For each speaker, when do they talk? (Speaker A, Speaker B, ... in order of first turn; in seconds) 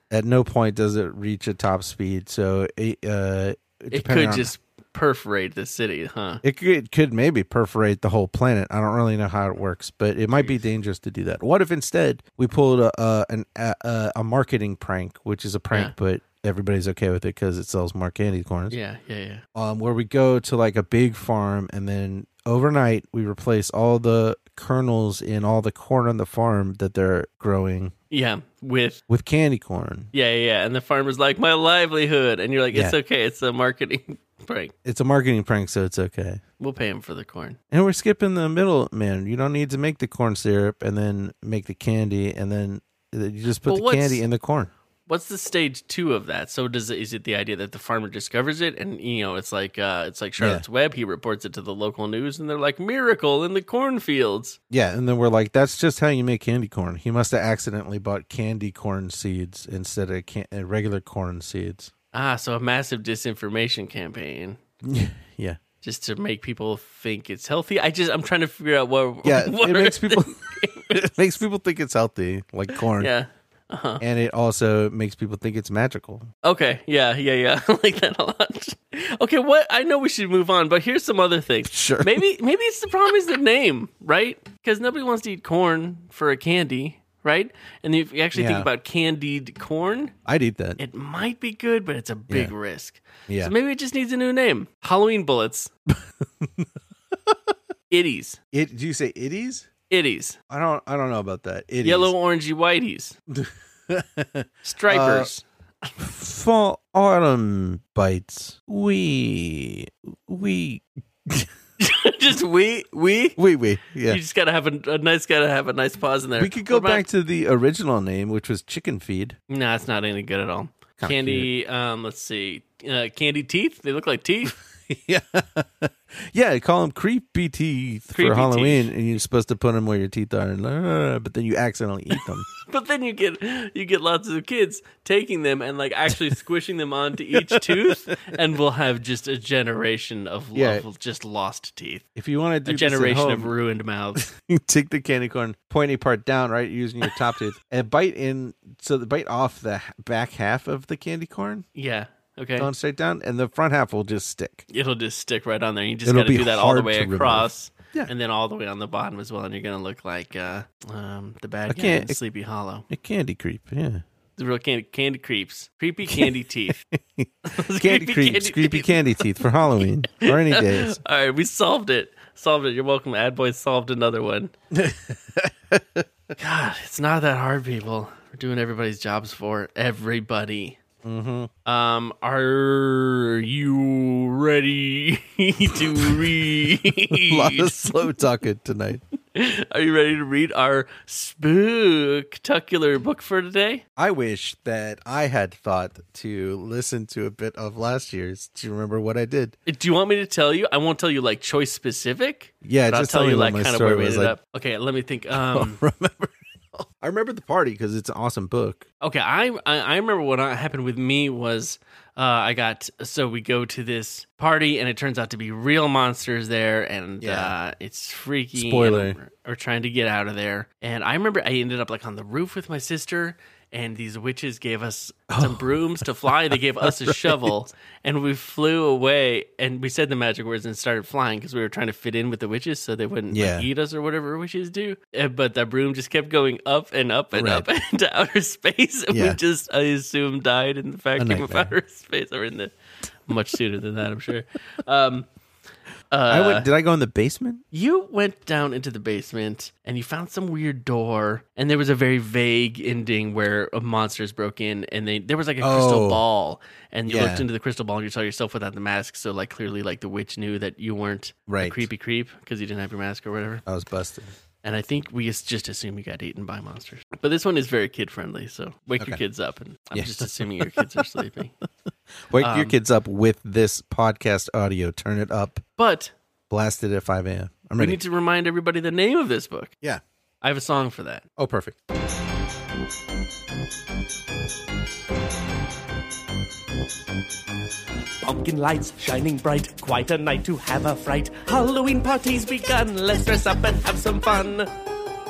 Speaker A: 0.1-4.5, 6.4-18.8, 19.5-27.9, 29.1-30.1, 34.8-36.4, 37.7-44.7, 50.4-50.6, 54.7-61.9, 64.8-65.6, 69.2-70.4, 70.9-73.1, 74.0-76.3, 81.7-82.2, 88.3-88.7, 90.2-90.8, 93.3-93.5, 96.4-96.7, 98.5-99.7, 100.5-102.1, 103.3-105.3, 106.0-111.5, 113.4-114.2, 116.4-119.4, 121.0-121.5, 124.9-132.4, 137.3-138.2, 140.5-140.8, 142.2-143.5, 144.2-151.7, 152.6-154.7, 156.0-158.1, 161.7-162.2, 162.9-164.0, 166.1-171.0, 174.7-176.0, 181.0-181.5, 186.0-186.4, 187.1-189.0, 194.0-199.5, 202.6-204.3, 205.3-208.8, 217.2-217.5, 218.5-219.2, 225.3-227.6, 233.3-233.7, 237.3-237.7, 239.1-239.4, 241.2-241.7, 246.3-247.6, 255.6-256.2, 257.1-257.4, 261.5-261.9, 263.6-264.3, 269.9-271.0, 272.3-275.6, 276.5-278.0, 281.4-281.7
Speaker B: 3.9-6.4, 18.7-19.4, 28.1-29.0, 30.1-34.7, 36.6-37.6, 43.6-44.2, 45.1-54.6, 62.1-64.6, 65.8-71.1, 73.0-74.0, 76.4-90.1, 90.8-95.7, 97.9-98.4, 99.9-100.4, 101.8-103.2, 104.6-105.4, 111.8-113.4, 114.1-117.0, 119.5-124.6, 128.1-128.9, 132.6-142.0, 142.6-144.2, 151.7-152.7, 154.7-162.9, 164.3-166.8, 167.5-169.3, 170.1-174.5, 176.4-180.8, 181.6-187.9, 189.3-193.8, 199.7-205.8, 209.0-242.7, 243.3-245.3, 246.1-246.7, 247.7-263.6, 264.6-271.5, 272.4-272.7, 275.8-276.1, 277.8-279.7, 280.4-281.2
Speaker C: 288.2-294.6